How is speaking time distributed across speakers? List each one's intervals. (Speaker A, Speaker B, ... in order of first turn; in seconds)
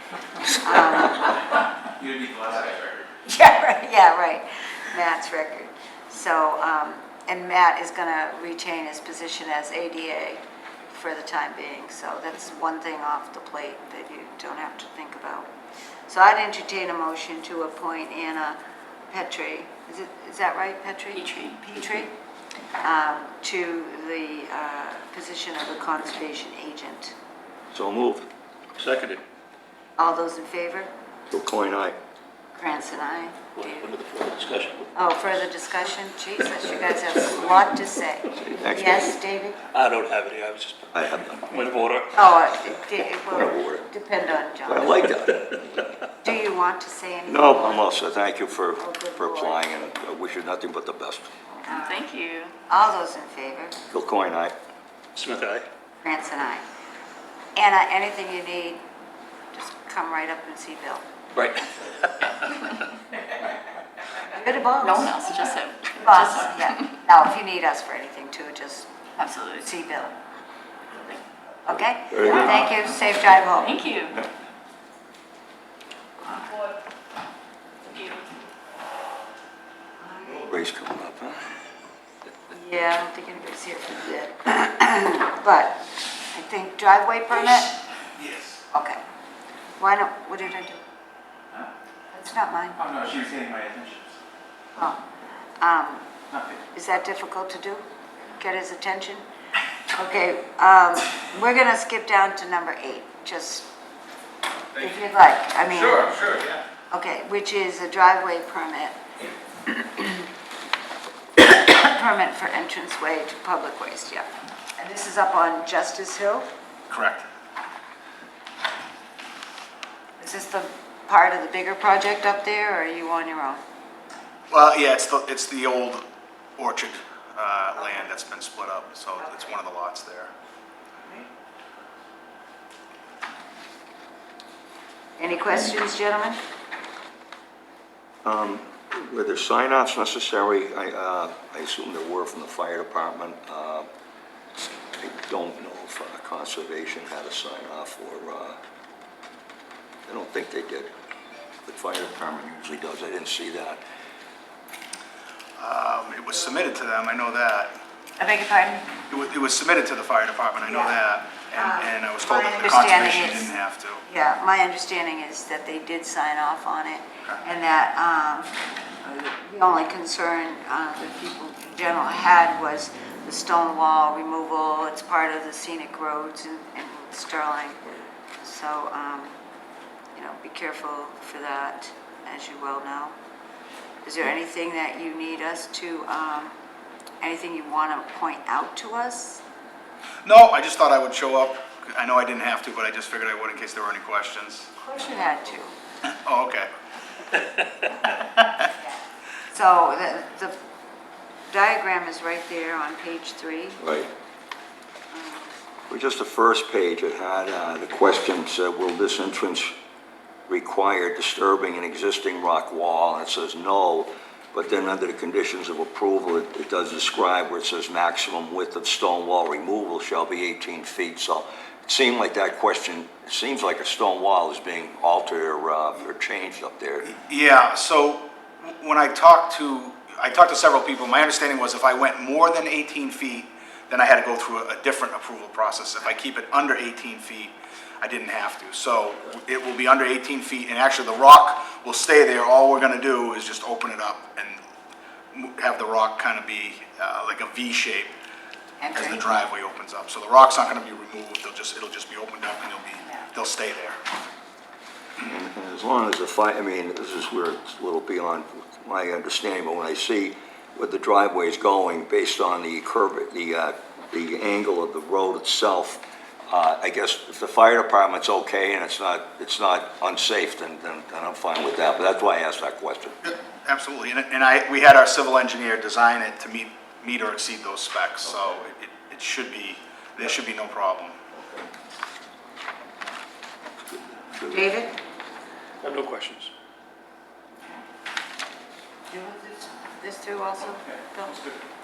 Speaker A: 0.5-1.4, 3.2-15.5, 16.1-18.6, 19.1-22.1, 22.8-27.1, 30.0-30.9, 32.5-34.0, 34.9-39.6, 42.1-45.0, 46.2-47.9, 48.8-49.7, 51.6-52.1, 52.7-53.8, 56.0-56.6, 57.5-58.8, 59.5-61.0, 64.3-65.1, 66.0-68.9, 69.5-70.1, 71.7-73.8, 76.2-76.6, 80.0-80.5, 82.5-87.7, 88.7-89.0, 89.8-90.8, 92.1-92.8, 95.6-96.1, 96.7-97.8, 98.3-99.2, 99.9-103.7, 104.8-106.3, 106.9-109.0, 109.7-110.2, 111.4-114.2, 114.8-116.5, 120.2-123.6, 135.2-136.4, 158.2-158.9, 160.6-160.9, 161.5-163.5, 164.1-179.3, 180.1-183.1, 184.0-186.5, 187.2-189.4, 194.8-195.7, 199.5-200.6, 201.5-203.8, 205.1-205.5, 248.8-249.2, 253.0-253.3, 284.5-284.9, 289.1-291.4
Speaker B: 2.0-2.9, 92.8-94.0
Speaker C: 21.1-21.6, 51.7-52.5, 64.8-66.8, 69.2-69.7, 73.5-74.2, 77.9-78.3
Speaker D: 27.7-28.3, 31.3-31.9, 38.3-39.1, 40.9-41.6, 43.3-43.9, 44.6-45.6, 47.3-51.3, 53.9-54.5, 72.1-72.6, 80.4-81.6, 138.2-143.9, 145.0-148.6, 150.1-150.9, 151.6-153.8, 203.8-204.1, 205.9-209.7, 210.5-227.2, 255.2-273.2, 284.1-284.6
Speaker E: 28.8-29.2, 33.5-34.9, 39.7-40.9, 41.5-42.2, 55.1-55.6, 61.3-62.3, 285.8-286.5
Speaker F: 88.2-88.6, 106.0-106.6, 116.9-117.2, 124.5-126.0, 126.6-130.3, 155.6-157.7, 159.1-164.0, 190.2-194.7, 196.1-196.7, 227.2-244.6, 245.3-248.1, 248.9-254.0, 273.2-281.2